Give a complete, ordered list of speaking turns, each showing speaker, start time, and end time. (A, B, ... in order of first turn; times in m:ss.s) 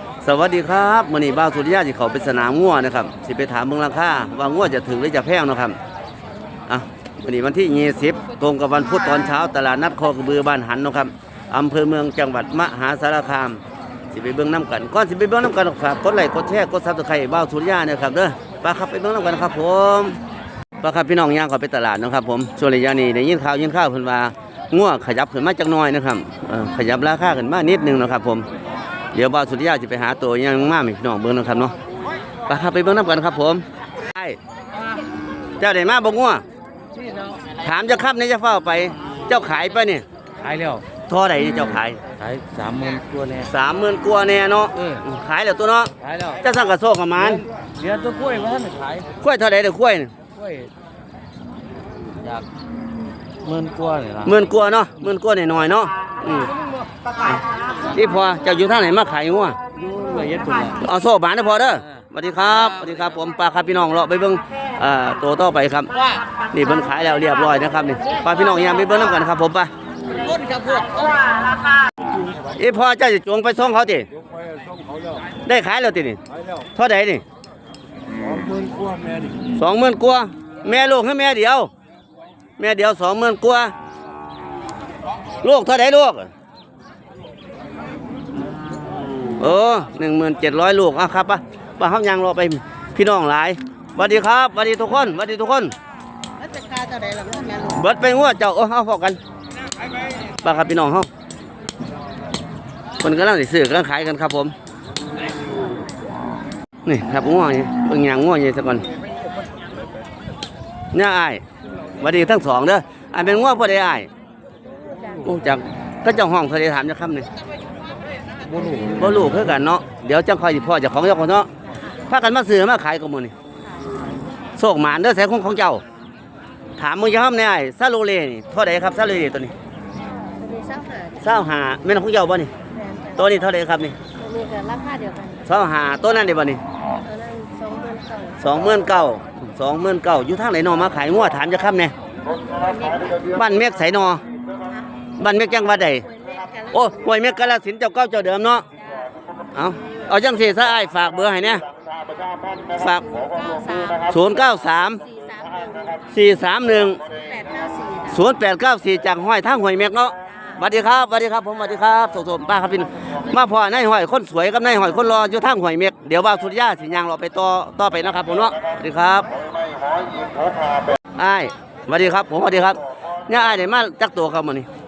0:00.2-0:05.8 A
0:06.7-0:13.6 A
0:14.1-0:20.2 A
0:20.8-0:28.4 A
0:29.1-0:31.7 A
0:32.5-0:34.4 A
0:35.6-0:36.4 A
0:37.0-0:37.3 B
0:37.6-0:40.0 A
0:40.4-0:40.8 B
0:41.1-0:42.0 A
0:42.2-0:43.5 B
0:43.4-0:47.4 A
0:44.8-0:45.0 B
0:46.0-0:46.4 B
0:47.2-0:49.1 B
0:49.2-0:50.1 A
0:50.4-0:50.7 B
0:53.4-0:54.3 B
0:54.2-0:56.5 A
0:57.9-0:59.6 A
0:59.8-1:00.8 B
1:00.8-1:05.9 A
1:06.5-1:09.7 A
1:10.2-1:11.0 B
1:12.5-1:14.0 A
1:15.4-1:16.2 A
1:16.7-1:17.2 A
1:19.6-1:21.7 A
1:22.6-1:23.7 A
1:25.4-1:26.3 A
1:29.4-1:35.7 A
1:36.4-1:37.8 C
1:37.7-1:39.2 A
1:40.4-1:41.1 A
1:43.0-1:44.5 A
1:46.8-1:48.8 A
1:50.9-1:51.4 A
1:52.0-1:54.1 A
1:55.2-1:57.3 A
1:58.5-1:59.0 B
1:59.0-2:01.5 A
2:02.1-2:03.3 A
2:04.6-2:05.8 A
2:06.8-2:09.5 A
2:10.4-2:11.2 C
2:11.2-2:12.5 A
2:12.7-2:13.4 C
2:13.1-2:14.0 A
2:14.1-2:15.4 C
2:15.4-2:16.6 A
2:17.0-2:18.6 C
2:18.4-2:21.9 A
2:22.5-2:23.2 C
2:23.2-2:24.2 A
2:25.2-2:26.1 A
2:26.1-2:26.9 C
2:26.7-2:28.6 A
2:28.8-2:29.1 C
2:29.5-2:31.6 A
2:32.8-2:33.2 A
2:33.0-2:34.0 C
2:34.0-2:35.0 A
2:35.0-2:36.0 C
2:36.1-2:37.0 A
2:37.1-2:38.2 C
2:38.1-2:49.3 A
2:40.3-2:40.6 C
2:51.2-2:54.7 A